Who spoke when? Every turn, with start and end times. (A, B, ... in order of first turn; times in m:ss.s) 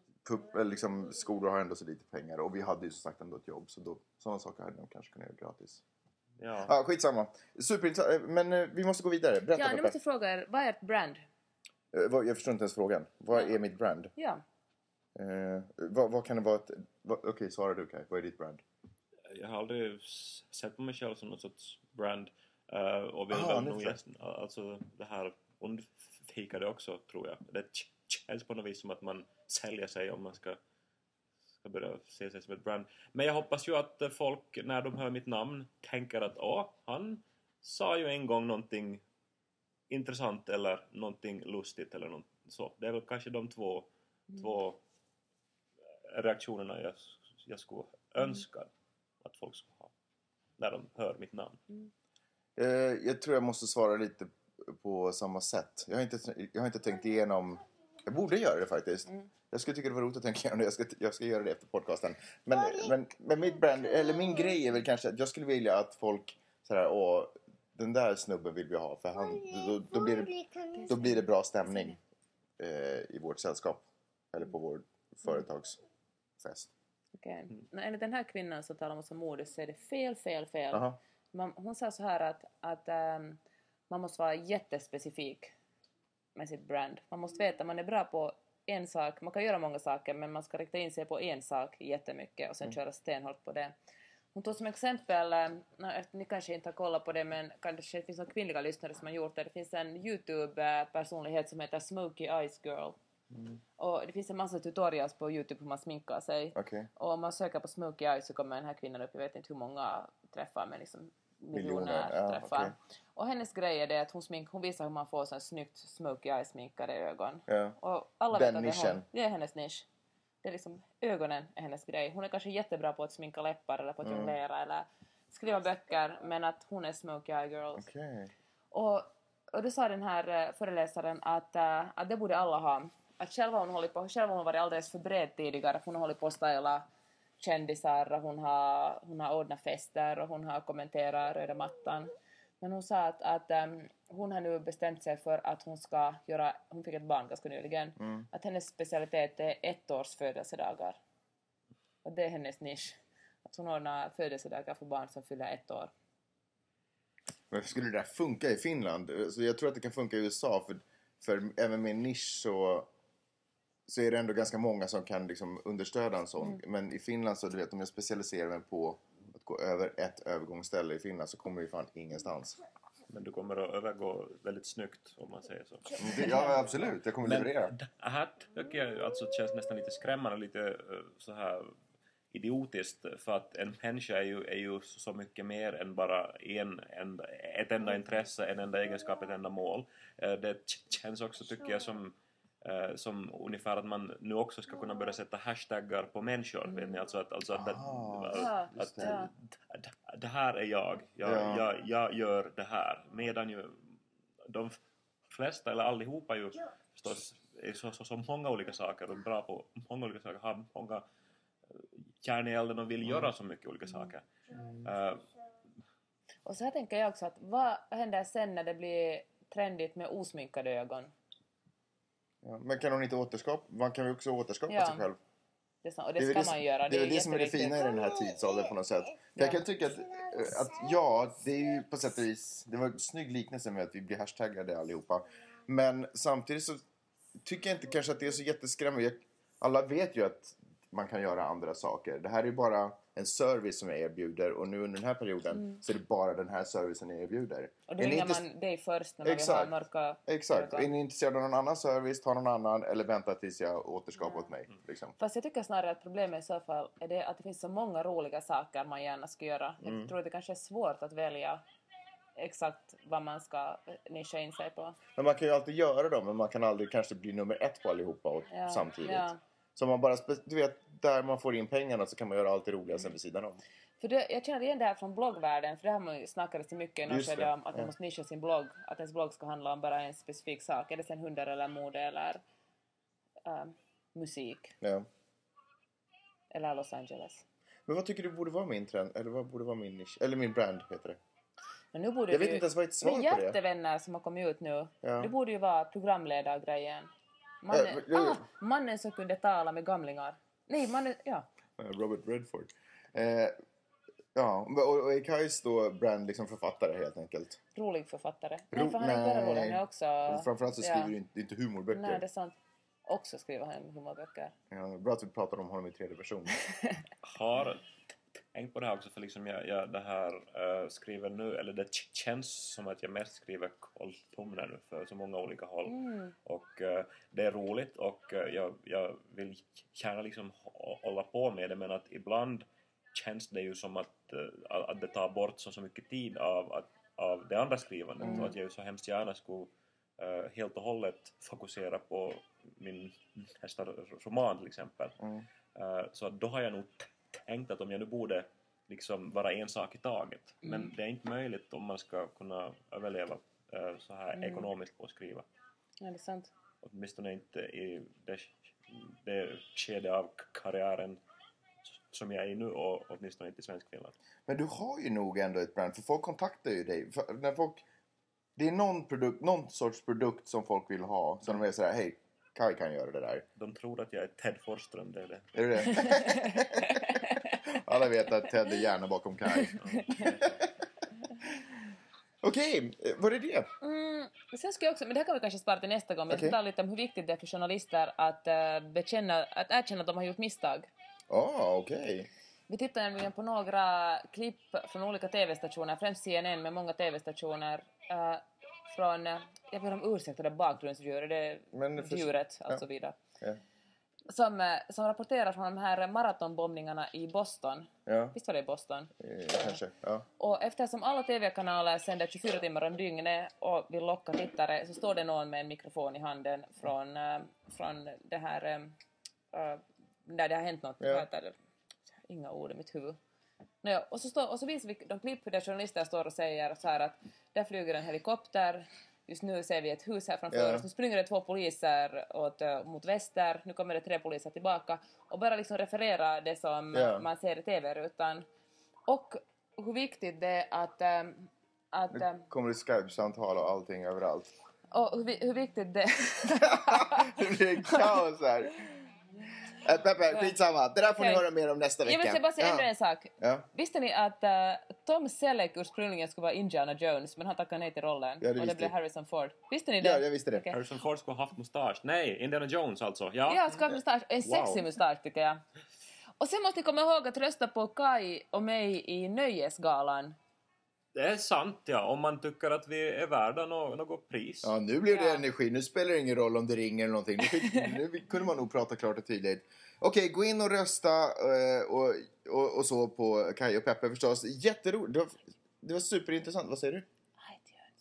0:00.2-0:05.8 A
0:06.4-0:06.7 B
0:06.6-0:09.9 A
0:09.6-0:11.2 C
0:11.9-0:14.1 A
0:13.3-0:13.6 C
0:14.2-0:14.4 C
0:15.2-0:18.6 A
0:19.3-0:30.6 B
0:23.3-0:24.0 A
0:31.6-0:39.0 B
0:39.9-0:44.8 B
0:46.1-0:48.7 B
0:49.2-0:49.9 B
0:50.6-0:51.6 B
0:52.6-1:12.0 A
1:10.7-1:11.2 C
1:12.6-1:15.8 A
1:16.4-1:16.7 A
1:17.2-1:23.4 C
1:20.7-1:21.0 A
1:23.9-1:25.5 C
1:26.4-1:33.7 C
1:34.3-1:43.0 C
1:43.3-1:43.6 A
1:43.8-1:59.8 C
1:46.5-1:46.9 A
1:51.5-1:52.7 A
1:57.5-1:57.8 A
1:58.3-1:59.0 A
2:00.4-2:07.9 C
2:04.0-2:04.3 A
2:07.8-2:08.3 A
2:08.7-2:16.8 C
2:17.4-2:31.0 C
2:28.0-2:28.2 A
2:32.0-2:35.9 C
2:37.5-2:42.9 A
2:43.8-2:52.6 A
2:53.1-2:56.2 B
2:56.0-2:57.7 A
2:57.2-3:01.8 B
3:02.3-3:24.8 B
3:17.5-3:19.2 A
3:18.3-3:19.3 C
3:21.2-3:21.6 A
3:25.3-3:31.0 B
3:31.7-3:34.2 B
3:34.8-3:35.2 B
3:36.4-3:41.1 C
3:42.4-3:45.2 A
3:44.7-3:45.1 C
3:45.8-3:47.9 C
3:46.2-3:56.8 A
3:49.4-3:49.6 C
3:57.4-4:08.4 A
4:07.9-4:10.9 C
4:09.2-4:15.1 A
4:15.2-4:21.6 C
4:19.8-4:20.1 A
4:22.4-4:25.0 C
4:25.2-4:33.6 A
4:28.5-4:29.4 C
4:34.0-4:42.4 C
4:37.1-4:37.9 A
4:43.4-4:44.8 C
4:44.8-4:45.1 A
4:46.5-4:47.4 C
4:47.9-4:51.2 A
4:51.9-4:57.1 C
4:52.3-4:53.6 A
4:55.0-4:55.3 A
4:57.6-5:01.5 C
4:57.7-4:58.4 A
5:01.8-5:03.5 A
5:04.3-5:07.6 A
5:07.7-5:11.1 C
5:08.7-5:12.2 A
5:11.9-5:14.5 C
5:14.7-5:16.6 A
5:17.2-5:17.9 B
5:18.5-5:45.2 B
5:25.9-5:26.3 C
5:38.2-5:38.5 A
5:45.2-5:45.4 A
5:45.7-5:55.4 B
5:50.6-5:50.9 C
5:54.4-5:54.7 C
5:56.0-5:56.5 C
5:56.8-6:01.2 B
6:01.8-6:04.2 B
6:04.4-6:07.8 A
6:08.6-6:13.4 A
6:13.6-6:15.5 B
6:15.5-6:20.5 A
6:16.1-6:17.2 C
6:19.8-6:20.6 B
6:22.4-6:23.7 A
6:23.8-6:30.9 C
6:26.3-6:26.6 A
6:31.3-6:32.3 A
6:32.7-6:43.2 C
6:41.7-6:42.8 A
6:44.3-6:49.8 C
6:48.1-6:48.3 A
6:49.2-6:50.2 A
6:50.4-6:59.0 C
6:59.5-7:01.5 C
7:01.0-7:01.2 A
7:02.3-7:03.2 C
7:03.8-7:18.4 C
7:10.5-7:10.8 A
7:16.9-7:17.2 A
7:19.1-7:22.4 C
7:22.1-7:24.5 A
7:24.9-7:28.1 C
7:26.6-7:28.7 A
7:29.8-7:32.9 A
7:31.2-7:31.4 C
7:32.0-7:40.8 C
7:33.4-7:33.7 A
7:38.4-7:38.9 A
7:40.0-7:40.6 A
7:40.7-7:43.9 B
7:43.5-7:45.6 C
7:44.4-7:44.8 B
7:46.4-7:50.4 C
7:51.1-7:54.7 B
7:54.6-8:07.0 A
7:55.1-7:55.4 C
7:57.5-7:57.9 C
8:07.4-8:07.9 C